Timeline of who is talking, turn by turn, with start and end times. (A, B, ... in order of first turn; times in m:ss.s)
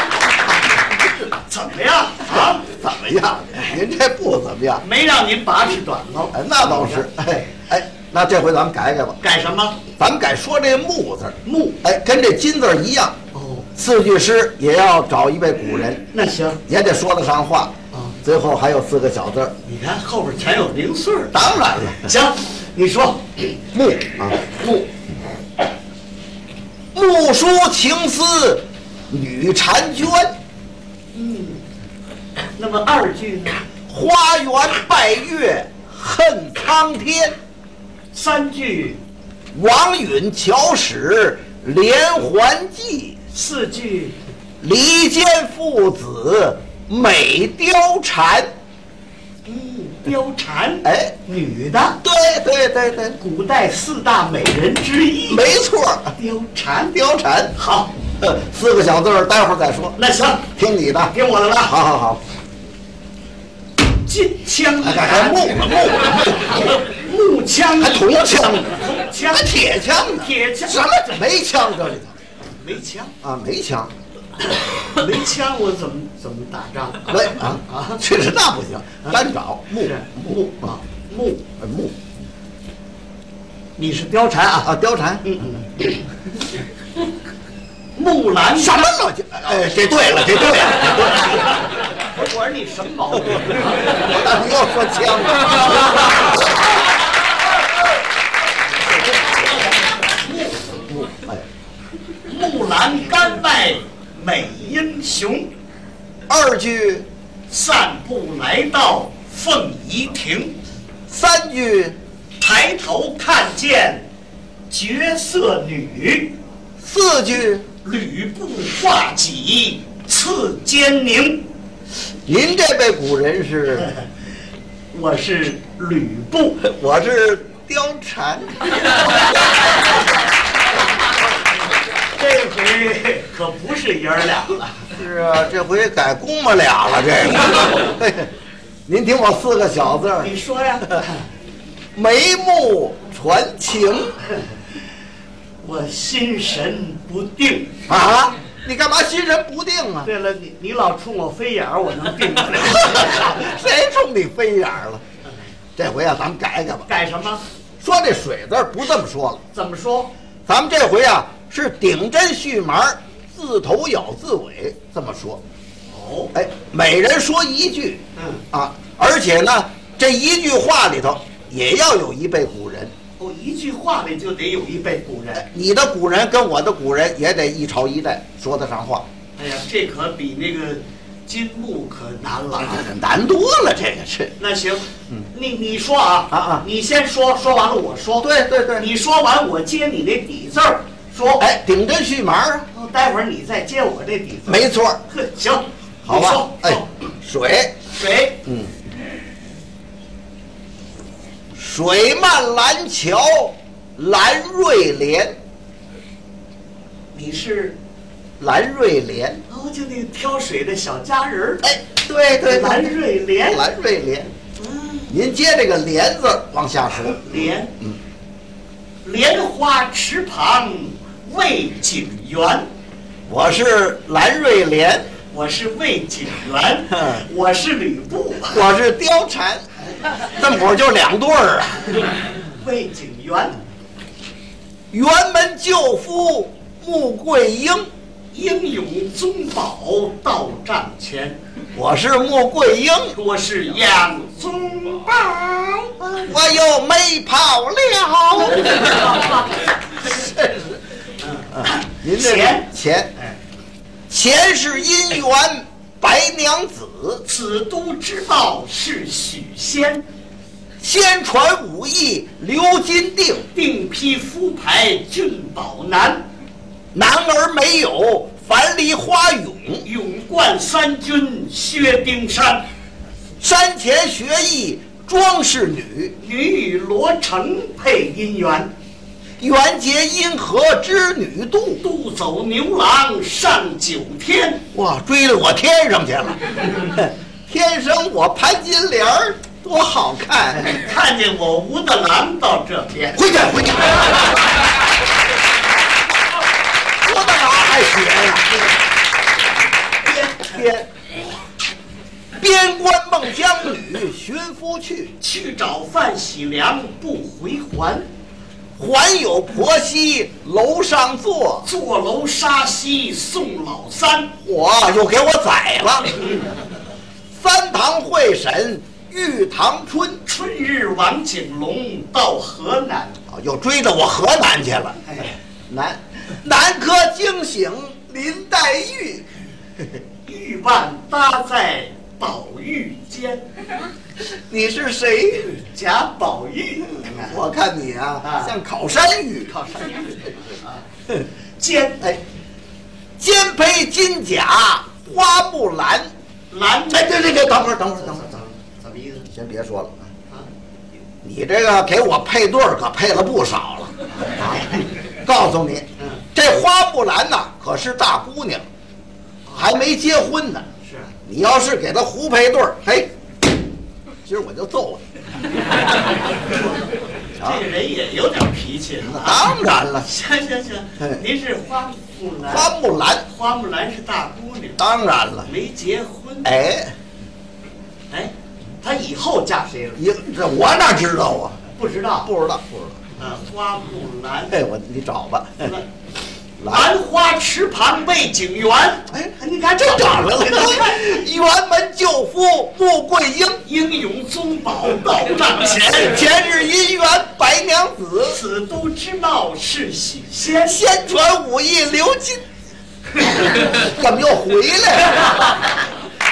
0:00.8-0:01.2 A
0:01.4-0:02.7 B
0:02.6-0:04.8 A
0:04.8-0:07.1 B
0:06.3-0:09.2 A
0:09.2-0:09.8 B
0:10.0-0:13.2 A
0:11.4-0:11.8 B
0:13.3-0:13.7 B
0:13.8-0:16.1 A
0:16.1-0:16.6 B
0:16.7-0:19.5 A
0:17.9-0:18.2 B
0:19.6-0:23.6 B
0:21.3-0:22.1 A
0:23.7-0:24.4 A
0:24.4-0:24.9 B
0:26.9-0:30.3 A
0:31.1-0:31.6 B
0:32.6-0:33.6 B
0:33.9-0:37.4 A
0:38.1-0:39.0 B
0:39.5-0:43.2 A
0:43.3-0:44.2 B
0:44.6-0:48.5 A
0:49.4-0:52.0 B
0:50.8-0:51.1 A
0:52.0-0:53.2 A
0:53.2-0:55.5 B
0:55.3-0:56.2 A
0:56.2-0:57.0 B
0:56.9-0:57.5 A
0:57.5-0:57.9 B
0:58.2-1:00.0 A
1:00.0-1:00.5 B
1:00.5-1:02.2 A
1:01.1-1:01.8 B
1:04.0-1:11.0 B
1:04.8-1:06.7 A
1:07.8-1:12.2 A
1:12.6-1:13.1 B
1:13.2-1:13.9 A
1:14.4-1:18.0 B
1:17.1-1:20.7 A
1:19.8-1:21.4 B
1:21.6-1:21.9 A
1:23.8-1:26.1 B
1:24.6-1:25.3 A
1:28.0-1:28.8 B
1:28.6-1:31.5 A
1:30.7-1:34.1 B
1:34.0-1:36.4 A
1:35.5-1:36.5 B
1:38.9-1:40.7 B
1:40.7-1:41.4 A
1:42.2-1:45.5 B
1:46.3-1:47.0 A
1:47.5-1:50.6 B
1:51.1-1:52.0 A
1:52.4-1:54.0 B
1:54.7-1:56.3 B
1:56.8-1:57.6 A
1:57.8-2:01.5 B
2:02.2-2:03.9 A
2:04.9-2:06.6 B
2:06.6-2:08.8 A
2:12.1-2:14.8 B
2:15.0-2:18.3 A
2:18.9-2:20.3 A
2:20.2-2:21.2 B
2:21.9-2:24.2 A
2:25.6-2:27.8 B
2:27.9-2:30.1 A
2:30.0-2:33.4 B
2:32.6-2:35.0 A
2:35.8-2:36.9 A
2:36.9-2:37.4 B
2:37.8-2:39.4 A
2:39.5-2:40.1 B
2:40.5-2:45.4 A
2:45.9-2:46.3 B
2:46.3-2:48.0 A
2:48.2-2:48.4 B
2:48.5-2:52.9 A
2:53.2-2:55.4 B
2:55.4-2:59.0 A
2:59.4-3:02.9 B
3:02.6-3:04.3 A
3:04.4-3:11.5 B
3:06.3-3:06.6 A
3:08.2-3:08.9 A
3:11.4-3:12.7 A
3:12.7-3:16.9 B
3:14.4-3:15.0 A
3:16.0-3:17.8 A
3:17.9-3:18.4 B
3:18.4-3:18.7 A
3:21.5-3:25.3 A
3:27.1-3:27.8 B
3:28.4-3:29.4 A
3:29.5-3:31.6 B
3:31.6-3:32.8 A
3:32.4-3:33.6 B
3:33.5-3:34.3 A
3:34.6-3:35.2 B
3:35.1-3:38.0 A
3:37.1-3:37.7 B
3:39.0-3:42.6 B
3:43.3-3:45.1 A
3:45.3-3:48.7 B
3:46.9-3:47.2 A
3:48.5-3:49.6 A
3:50.2-3:52.1 A
3:52.4-3:53.6 B
3:54.9-3:57.9 A
3:58.3-4:01.4 B
4:01.7-4:03.2 A
4:03.1-4:06.0 B
4:06.0-4:09.1 A
4:08.4-4:09.9 B
4:10.0-4:10.8 A
4:11.2-4:13.4 B
4:11.5-4:13.1 A
4:14.1-4:17.2 A
4:17.2-4:20.0 B
4:20.8-4:23.5 A
4:23.5-4:26.2 B
4:26.9-4:29.8 A
4:29.8-4:32.7 B
4:33.4-4:36.1 A
4:36.2-4:38.7 B
4:39.4-4:41.8 A
4:41.8-4:44.6 B
4:44.7-4:50.7 A
4:50.5-4:53.4 B
4:53.1-4:54.3 A
4:57.0-4:58.6 A
5:00.2-5:00.9 A
5:02.4-5:05.1 A
5:05.2-5:08.0 B
5:08.8-5:11.7 A
5:11.6-5:14.3 B
5:14.4-5:16.2 A
5:17.3-5:20.2 A
5:20.2-5:23.2 B
5:23.3-5:25.2 A
5:25.0-5:25.3 B
5:25.7-5:29.2 A
5:30.2-5:33.5 B
5:34.3-5:35.6 A
5:35.6-5:37.4 B
5:37.1-5:40.3 A
5:38.2-5:38.5 B
5:39.5-5:40.8 B
5:41.6-5:42.2 B
5:43.2-5:46.1 A
5:46.5-5:49.3 B
5:46.9-5:48.2 A
5:49.3-5:50.1 A
5:51.2-5:54.7 A
5:54.4-5:54.8 B
5:55.2-5:58.6 A
5:56.0-5:56.2 B
5:59.4-5:59.7 B
5:59.5-6:00.7 A
6:00.8-6:01.1 B
6:01.2-6:03.1 A
6:04.2-6:05.0 A
6:06.4-6:06.8 B
6:07.4-6:12.7 B
6:09.0-6:10.0 A
6:12.4-6:13.2 A
6:13.3-6:14.8 B
6:14.8-6:15.5 A
6:15.4-6:16.6 B
6:16.4-6:16.9 A
6:18.1-6:20.0 B
6:20.0-6:21.6 A
6:21.7-6:22.3 B
6:22.2-6:23.0 A
6:23.2-6:24.6 B
6:24.5-6:25.7 A
6:25.6-6:25.8 B
6:26.6-6:26.9 A
6:26.7-6:31.2 B
6:29.1-6:33.6 A
6:33.6-6:36.3 B
6:35.9-6:38.4 A
6:38.2-6:40.8 B
6:40.6-6:42.4 A
6:43.2-6:45.4 A